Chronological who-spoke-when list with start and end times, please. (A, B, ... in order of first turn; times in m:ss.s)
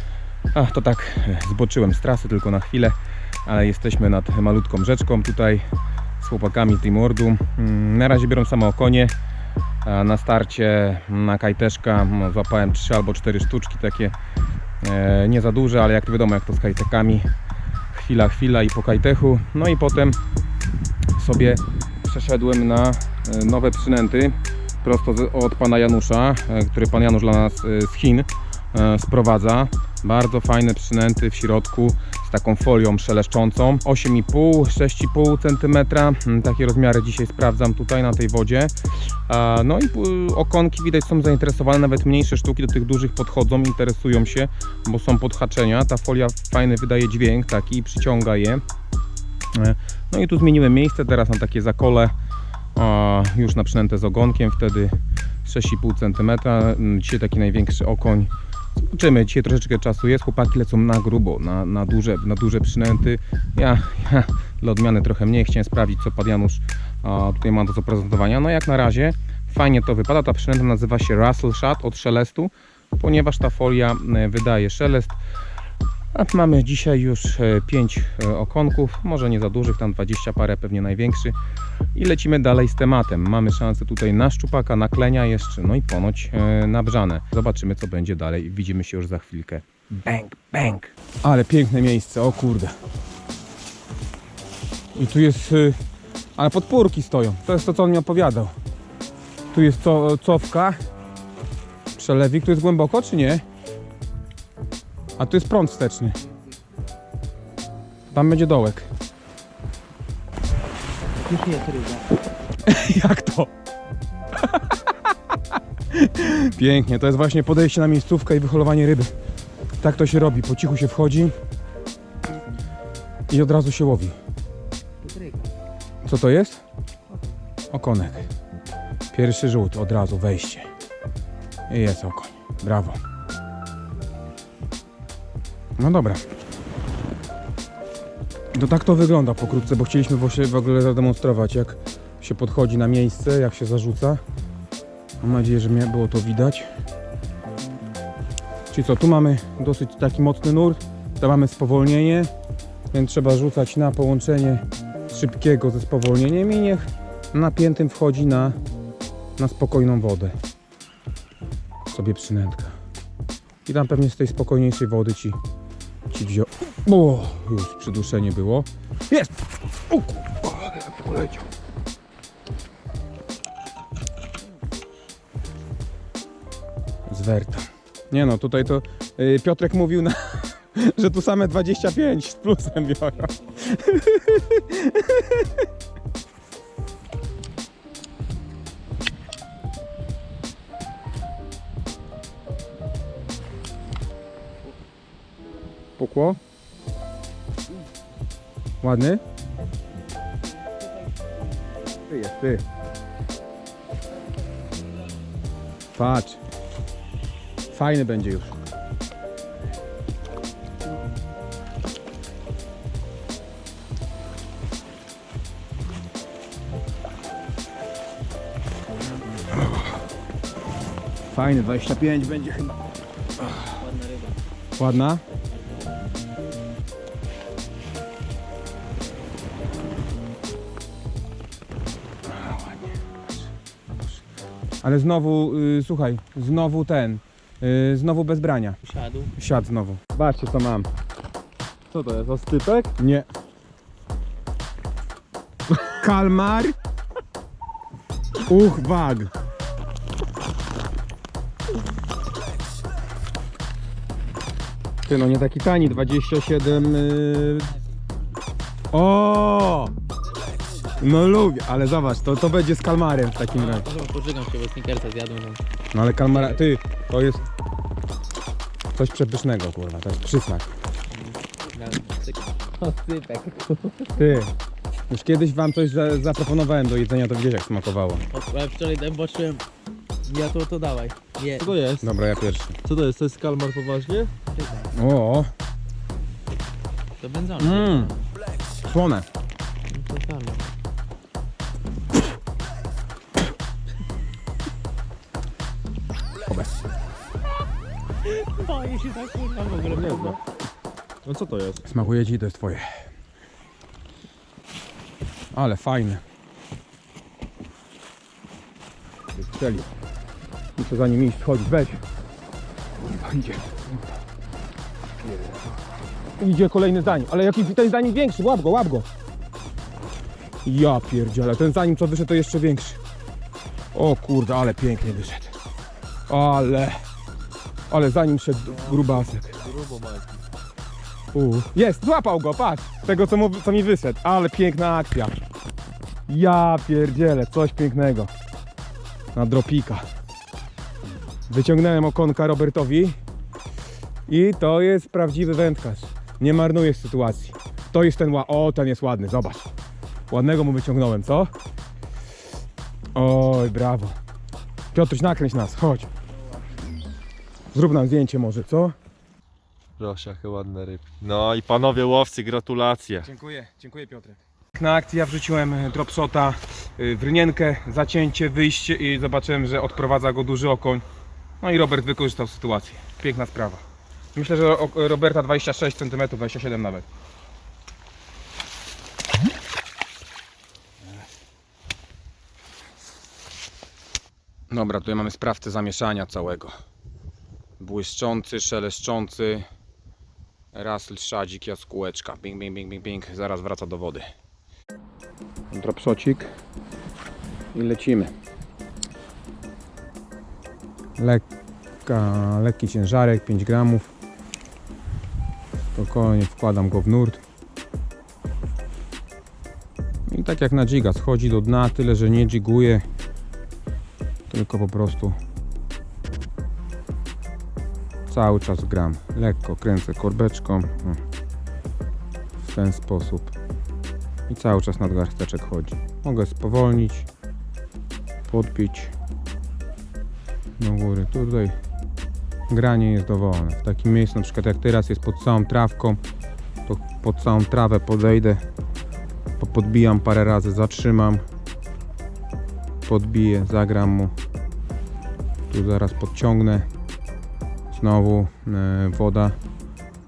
0:00.5-0:09.1 A
0:09.8-0:14.2 A
0:14.8-0:17.3 A
0:17.9-0:20.2 A
0:21.1-0:48.6 A
0:49.5-0:52.1 A
0:52.7-1:15.2 A
1:16.1-1:21.4 A
1:21.9-1:32.8 A
1:34.9-1:35.8 A
1:36.4-1:38.5 A
1:39.5-1:40.8 A
1:41.9-1:43.4 A
1:45.2-1:46.2 A
1:48.1-1:48.9 A
1:51.3-1:52.0 B
1:52.6-1:53.5 A
1:54.3-1:54.9 A
1:55.9-1:59.1 A
1:59.8-2:01.3 A
2:03.3-2:04.2 A
2:05.0-2:05.5 B
2:06.0-2:06.6 A
2:07.7-2:08.3 A
2:09.1-2:10.7 A
2:11.7-2:13.0 A
2:15.8-2:16.2 A
2:18.5-2:24.2 A
2:25.2-2:26.7 A
2:28.7-2:32.3 A
2:32.9-2:38.6 A
2:39.4-2:40.4 A
2:41.9-2:42.8 A
2:43.6-2:45.4 A
2:46.1-2:51.5 A
2:57.0-3:05.6 A
3:16.0-3:16.4 A
3:18.8-3:19.2 A
3:22.1-3:22.6 A
3:25.9-3:26.4 A
3:27.7-3:28.6 A
3:41.3-3:42.8 A
3:43.4-3:43.7 A
3:44.8-3:45.2 A
3:52.2-3:54.2 A
3:54.8-3:58.8 A
3:58.8-3:59.3 B
3:59.4-4:00.9 A
4:01.9-4:02.9 C
4:03.0-4:03.3 A
4:05.7-4:06.8 A
4:08.4-4:09.3 A
4:15.0-4:17.8 A
4:18.9-4:19.9 A
4:21.0-4:23.9 A
4:23.5-4:25.6 B
4:25.9-4:27.5 A
4:26.2-4:26.6 B
4:28.9-4:30.7 A
4:31.1-4:34.3 B
4:34.1-4:34.5 A
4:35.1-4:38.2 A
4:38.3-4:39.6 B
4:40.2-4:41.7 B
4:41.6-4:42.1 C
4:42.0-4:42.8 A
4:42.8-4:44.3 C
4:44.5-4:44.9 B
4:44.9-4:45.5 A
4:47.2-4:48.2 B
4:47.6-4:48.1 A
4:48.8-4:49.3 A
4:49.9-4:50.7 B
4:56.4-4:56.9 A
4:58.2-5:00.4 B
4:59.9-5:00.4 C
5:01.2-5:02.0 C
5:01.8-5:03.1 A
5:05.5-5:06.2 A
5:09.3-5:09.9 A
5:10.8-5:12.0 A
5:13.0-5:14.1 A
5:15.2-5:15.8 A
5:16.4-5:19.1 A
5:20.6-5:23.0 A
5:23.9-5:25.5 A
5:26.3-5:27.0 A
5:27.9-5:29.6 A
5:28.7-5:30.4 C
5:31.3-5:35.3 A
5:36.3-5:38.3 A
5:39.3-5:40.0 A
5:41.5-5:43.2 A
5:44.3-5:49.7 A
5:50.3-5:51.5 A
5:53.1-5:54.2 A
5:54.9-5:56.1 A
5:57.7-5:59.0 A
6:00.0-6:03.3 C
6:03.2-6:11.0 A
6:11.6-6:13.8 A
6:14.3-6:17.0 A
6:24.7-6:26.7 A
6:27.8-6:29.6 A
6:30.7-6:34.3 A
6:35.7-6:36.5 A
6:37.7-6:38.3 A
6:41.2-6:41.4 A
6:42.0-6:44.1 A
6:45.9-6:47.4 A
6:50.3-6:53.1 A
6:54.5-6:55.4 A
6:58.3-7:01.2 A
7:02.6-7:03.6 A
7:04.5-7:07.3 A
7:08.5-7:09.1 A
7:10.8-7:11.8 A
7:12.7-7:16.2 A
7:16.8-7:18.6 A
7:19.6-7:21.4 A
7:23.0-7:24.3 A
7:25.7-7:26.9 A
7:27.9-7:29.6 A